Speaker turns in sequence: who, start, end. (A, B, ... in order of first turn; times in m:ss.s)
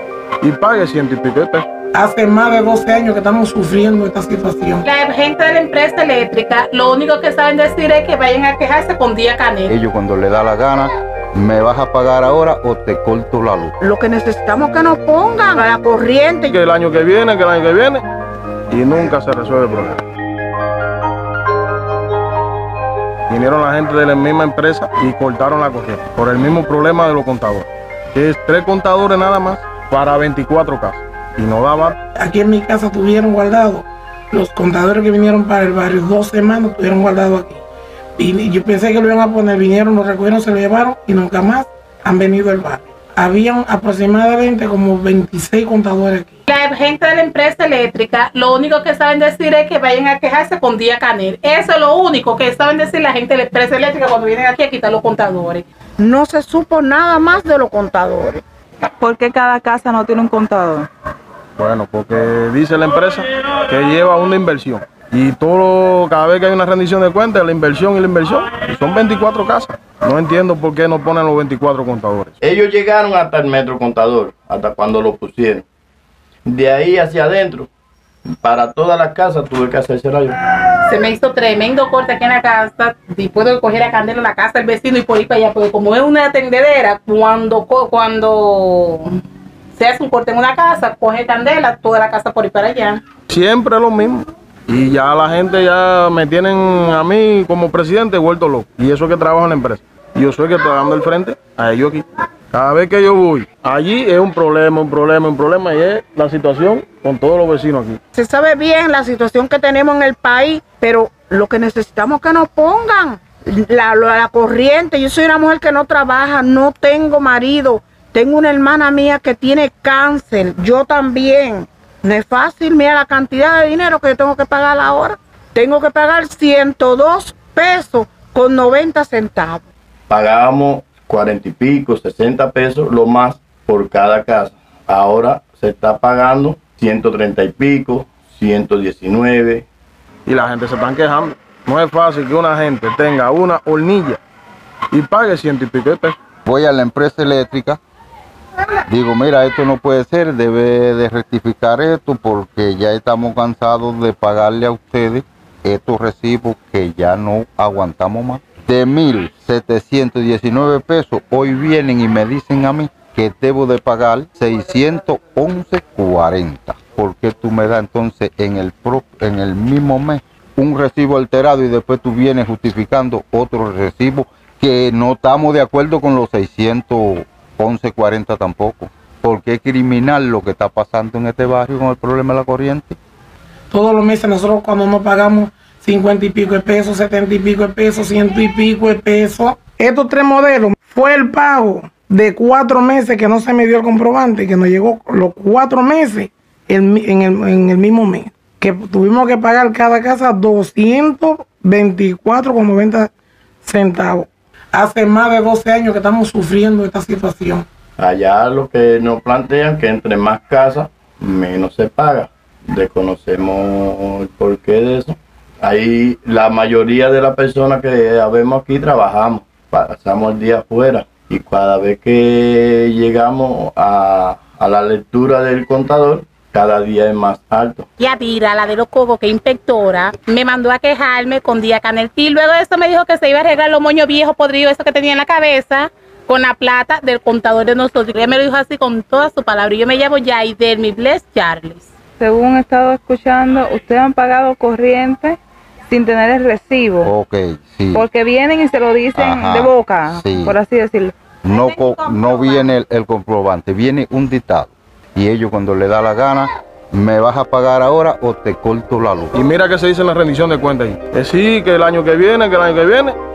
0:00.4-0:01.7 A
0:01.9-0:04.8 B
0:04.8-0:09.7 C
0:09.7-0:13.8 D
0:13.8-0:16.6 E
0:16.5-0:18.0 A
0:18.7-0:20.0 A
0:23.3-0:32.0 A
0:32.2-0:37.6 B
0:38.2-0:46.4 B
0:46.5-0:55.6 C
0:56.0-0:58.4 E
0:59.0-1:00.9 F
1:01.6-1:12.4 A
1:12.4-1:15.6 G
1:16.5-1:17.7 G
1:18.4-1:20.4 G
1:20.9-1:29.2 C
1:29.8-1:33.0 C
1:33.3-1:48.0 A
1:48.1-2:09.7 E
2:10.1-2:19.7 G
2:20.3-2:24.2 A
2:24.9-2:26.2 A
2:26.5-2:27.8 D
2:28.9-3:03.0 D
3:03.7-3:23.1 B
3:23.6-3:27.7 B
3:28.0-3:47.9 G
3:48.0-4:01.9 C
4:02.2-4:07.1 F
4:07.0-4:08.1 D
4:07.9-4:11.2 F
4:09.2-4:10.6 D
4:11.4-4:19.4 D
4:11.5-4:12.6 C
4:19.4-4:23.2 A